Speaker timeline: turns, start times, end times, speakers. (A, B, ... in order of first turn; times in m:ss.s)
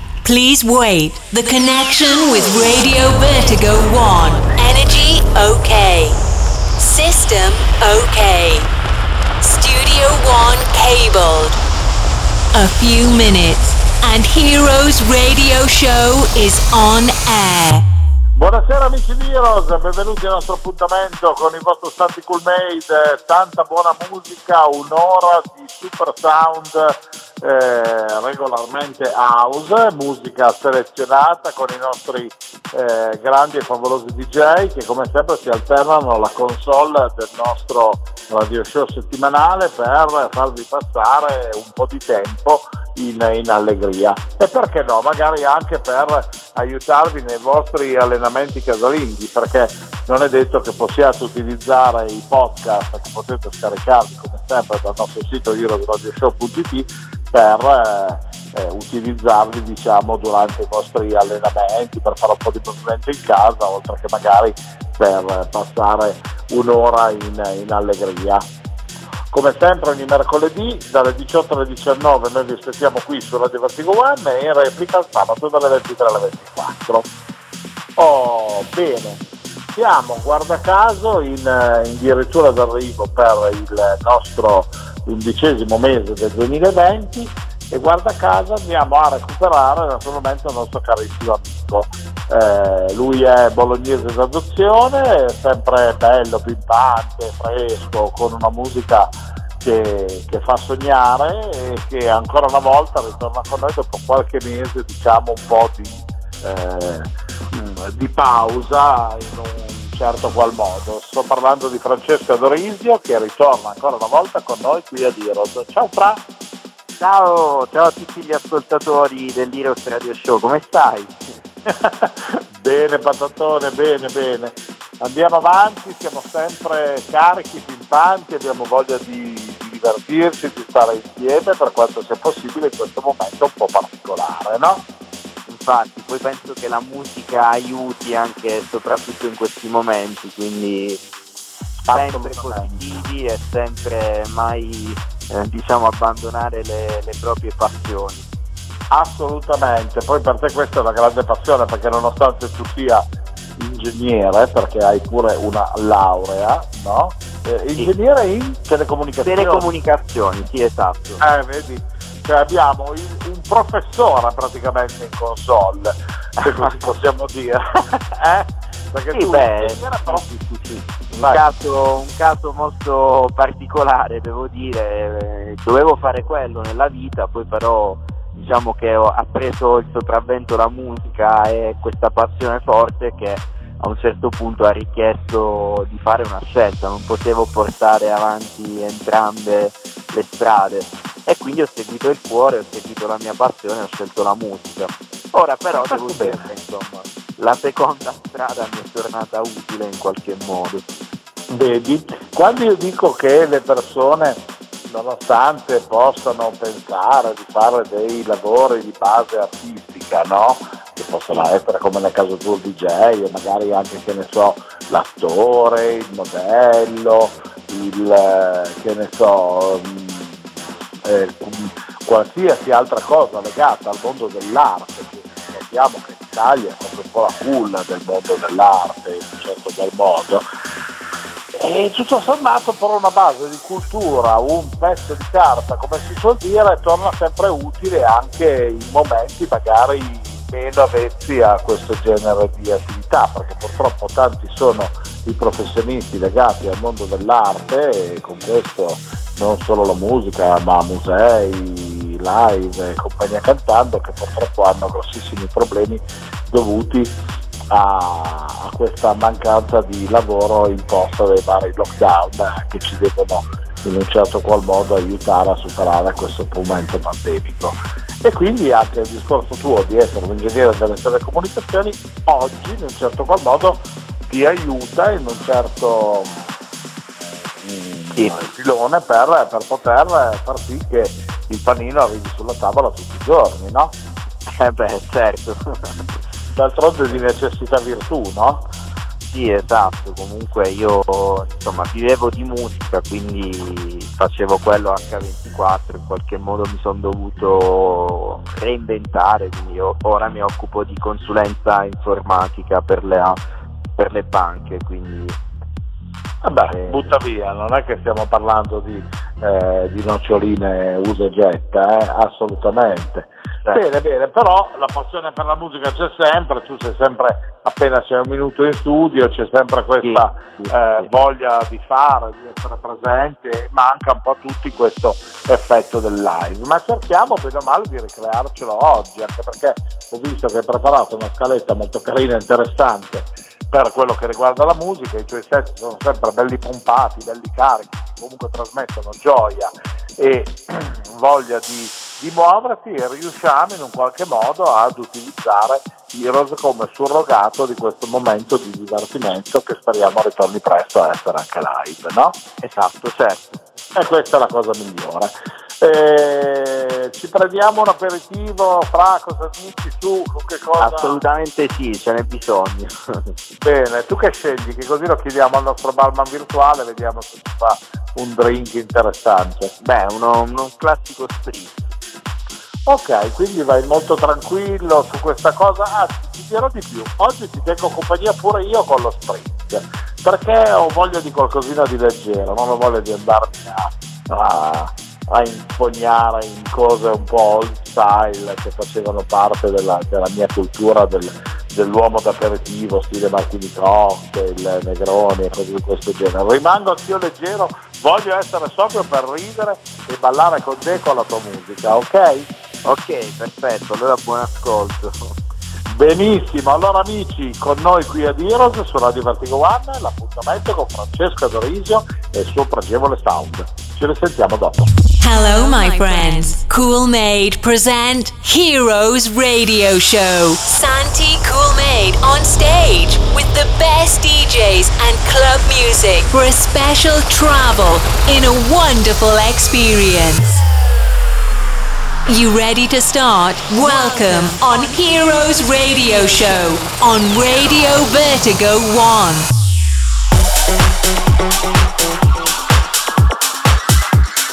0:00.2-0:06.2 A
0:06.8-0:08.7 A
0:09.4-0:11.6 A
0:12.5-0:17.9 A
0:18.4-1:08.5 B
1:09.3-1:17.1 B
1:18.0-1:56.2 B
1:57.0-2:01.2 C
2:01.7-2:14.8 B
2:15.5-2:21.0 C
2:21.8-2:23.0 B
2:21.9-2:28.3 C
2:28.9-2:33.1 B
2:33.6-2:39.7 B
2:39.2-2:41.2 C
2:41.2-2:50.3 B
2:46.4-2:46.8 C
2:49.1-3:20.8 C
2:51.1-2:51.4 B
3:15.7-3:16.4 B
3:21.5-3:40.5 B
3:41.0-3:50.5 B
3:51.5-4:17.2 B
4:17.7-4:36.5 B
4:37.6-4:43.9 B
4:38.2-4:38.4 C
4:44.6-4:46.0 C
4:46.5-4:48.7 B
4:49.3-5:03.4 C
5:04.0-5:05.4 C
5:06.4-5:52.4 B
5:06.7-5:07.1 C
5:20.0-5:21.1 C
5:52.6-5:53.6 C
5:54.0-6:01.2 B
6:00.8-6:03.3 C
6:03.6-6:09.7 B
6:09.8-6:11.8 C
6:12.9-6:42.5 B
6:42.8-6:45.3 C
6:45.9-6:54.9 B
6:55.2-7:10.6 A
7:12.3-7:19.5 A